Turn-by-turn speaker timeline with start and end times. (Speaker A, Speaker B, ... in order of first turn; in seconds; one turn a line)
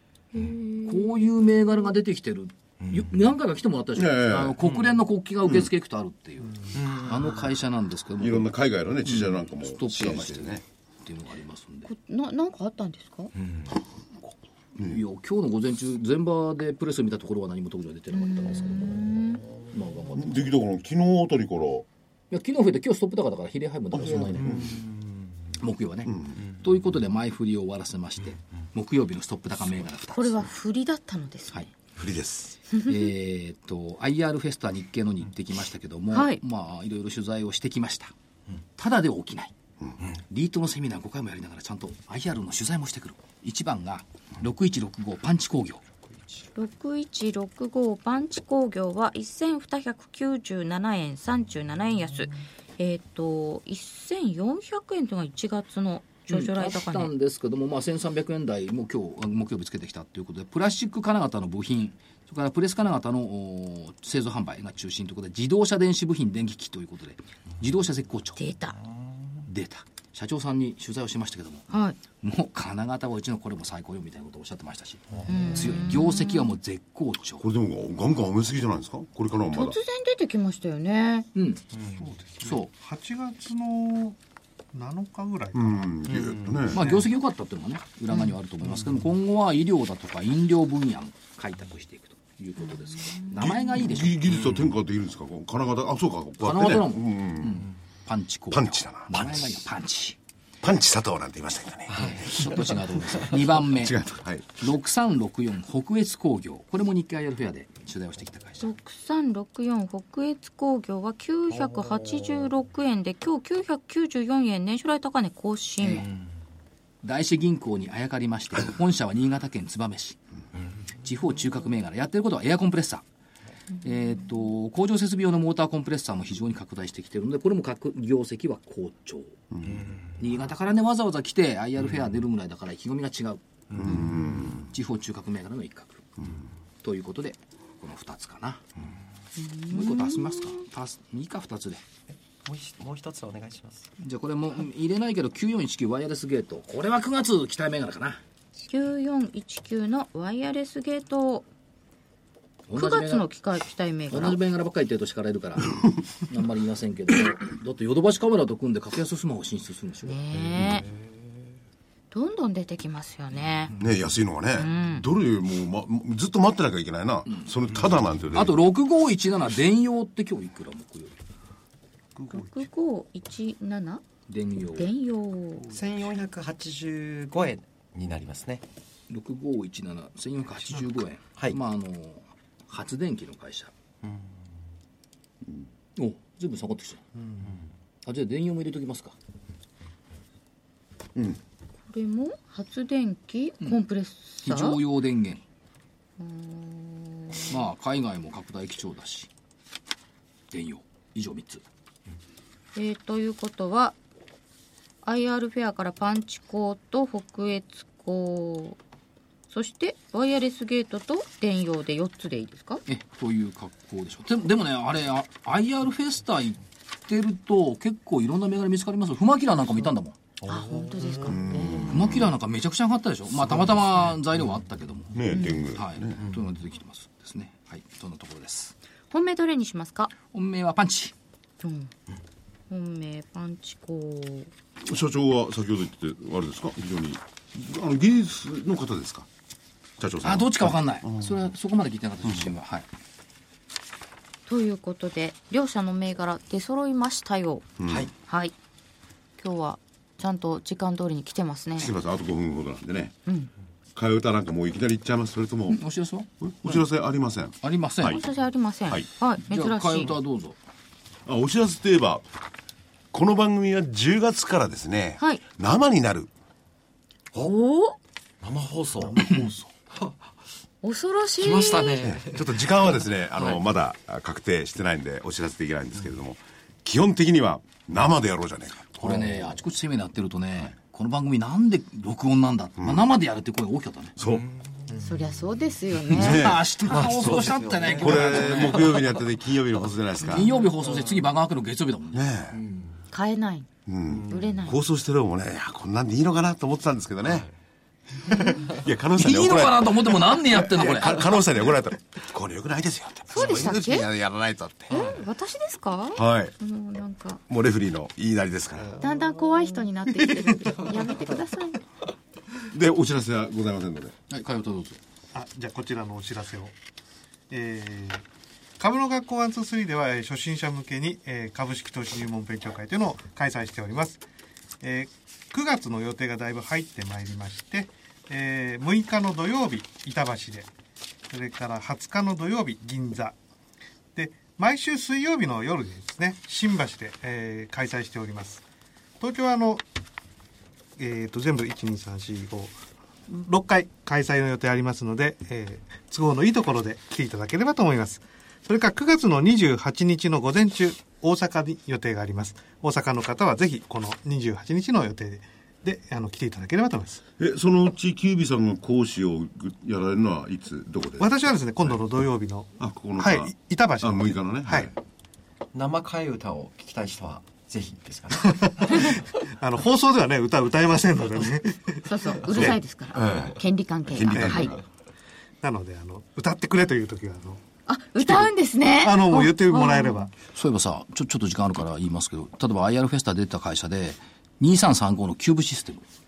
Speaker A: 0.3-1.3
Speaker B: 0.9-8.5
Speaker C: 3.9-4.6
Speaker D: 6.8-7.2
Speaker C: 8.2-10.6
Speaker B: 9.0-11.9
Speaker A: 11.8-13.3
Speaker B: 14.8-20.5
Speaker A: 18.1-19.4
Speaker C: 20.1-21.9
Speaker B: 22.3-24.9
Speaker C: 23.9-24.8
Speaker B: 25.6-30.5
Speaker A: 30.1-31.7
Speaker C: 32.0-32.6
Speaker B: 32.8-38.1
Speaker A: 36.1-36.4
Speaker B: 38.8-39.5
Speaker B: 40.3-45.8
Speaker A: 46.5-57.1
Speaker B: 56.3-68.4
Speaker A: 68.4-68.8
Speaker B: 69.4-77.4
Speaker A: 71.7-72.0
Speaker A: 75.3-76.5
Speaker C: 77.4-79.8
Speaker A: 79.5-81.3
Speaker B: 81.3-81.7
Speaker E: 81.9-84.2
Speaker B: 82.4-82.7
Speaker E: 84.7-86.2
Speaker C: 85.5-86.8
Speaker B: 86.7-94.5
Speaker A: 92.6-93.3
Speaker C: 93.4-97.7
Speaker B: 96.4-100.2
Speaker C: 98.5-99.6
Speaker C: 100.6-102.5
Speaker B: 101.9-104.0
Speaker C: 103.3-104.7
Speaker B: 104.6-108.7
Speaker A: 108.6-116.1
Speaker B: 117.0-120.2
Speaker B: 121.0-123.0
Speaker B: 123.8-129.3
Speaker C: 129.5-129.9
Speaker B: 130.2-136.0
Speaker C: 133.8-134.5
Speaker B: 136.8-138.6
Speaker A: 139.4-140.6
Speaker B: 139.7-141.8
Speaker D: 142.4-143.9
Speaker B: 144.0-148.2
Speaker A: 148.7-151.4
Speaker B: 152.7-153.2
Speaker A: 152.8-154.4
Speaker B: 154.1-160.7
Speaker A: 160.1-160.9
Speaker A: 162.1-163.7
Speaker C: 163.8-168.6
Speaker A: 164.5-165.1
Speaker B: 167.3-167.5
Speaker B: 168.3-171.2
Speaker E: 172.1-172.7
Speaker A: 172.3-174.0
Speaker B: 174.3-174.9
Speaker A: 174.8-175.7
Speaker D: 175.7-178.6
Speaker B: 179.1-183.7
Speaker B: 185.9-187.0
Speaker E: 187.1-187.5
Speaker B: 188.0-189.1
Speaker C: 191.1-191.4
Speaker A: 191.9-194.8
Speaker B: 194.4-195.4
Speaker A: 196.2-197.6
Speaker B: 197.5-199.3
Speaker B: 200.5-201.6
Speaker A: 202.8-203.9
Speaker A: 205.0-208.8
Speaker A: 209.5-212.8
Speaker B: 212.9-220.2
Speaker A: 220.5-222.0
Speaker C: 221.2-222.3
Speaker B: 221.9-228.7
Speaker C: 225.1-226.3
Speaker A: 225.3-225.6
Speaker A: 229.1-230.1
Speaker B: 230.3-231.1
Speaker A: 231.6-231.9
Speaker A: 232.7-234.5
Speaker C: 234.8-239.3
Speaker C: 240.0-241.4
Speaker B: 240.2-242.9
Speaker C: 242.2-242.5
Speaker A: 244.5-247.7
Speaker C: 247.8-248.1
Speaker A: 248.3-248.5
Speaker A: 249.4-251.9
Speaker C: 251.8-253.1
Speaker C: 253.9-255.8
Speaker B: 255.7-256.8
Speaker C: 256.4-258.2
Speaker B: 257.6-258.2
Speaker A: 258.0-260.1
Speaker B: 259.4-260.6
Speaker C: 261.2-262.2
Speaker C: 263.1-266.3
Speaker A: 267.4-267.9
Speaker D: 268.4-269.2
Speaker E: 269.0-269.7
Speaker A: 270.8-272.0
Speaker D: 271.5-272.5
Speaker C: 271.8-279.6
Speaker B: 279.0-284.1
Speaker C: 282.8-283.0
Speaker C: 284.2-284.4
Speaker A: 284.9-286.6
Speaker C: 286.1-290.5
Speaker B: 286.1-289.0
Speaker D: 287.1-288.6
Speaker A: 290.2-290.7
Speaker B: 290.2-292.3
Speaker C: 292.1-292.6
Speaker D: 292.6-292.9
Speaker A: 293.1-293.7
Speaker C: 293.9-297.5
Speaker A: 294.3-294.8
Speaker C: 298.2-305.0
Speaker B: 299.2-301.3
Speaker A: 303.3-304.1
Speaker A: 304.9-307.4
Speaker C: 306.1-306.5
Speaker C: 307.5-309.0
Speaker A: 309.0-311.8
Speaker C: 312.7-314.1
Speaker B: 314.3-315.0
Speaker E: 315.3-316.7
Speaker E: 317.5-318.2
Speaker E: 318.8-324.2
Speaker E: 324.8-330.7
Speaker E: 331.3-333.4
Speaker E: 334.1-338.6
Speaker E: 339.2-339.8
Speaker E: 341.0-357.2
Speaker C: 357.4-361.9
Speaker E: 361.2-364.9
Speaker C: 362.8-364.9
Speaker D: 365.7-369.2
Speaker E: 368.5-372.1
Speaker A: 372.0-374.7
Speaker C: 372.5-374.8
Speaker E: 374.3-374.6
Speaker E: 375.6-377.6
Speaker A: 377.9-380.3
Speaker E: 378.2-380.3
Speaker B: 380.5-386.0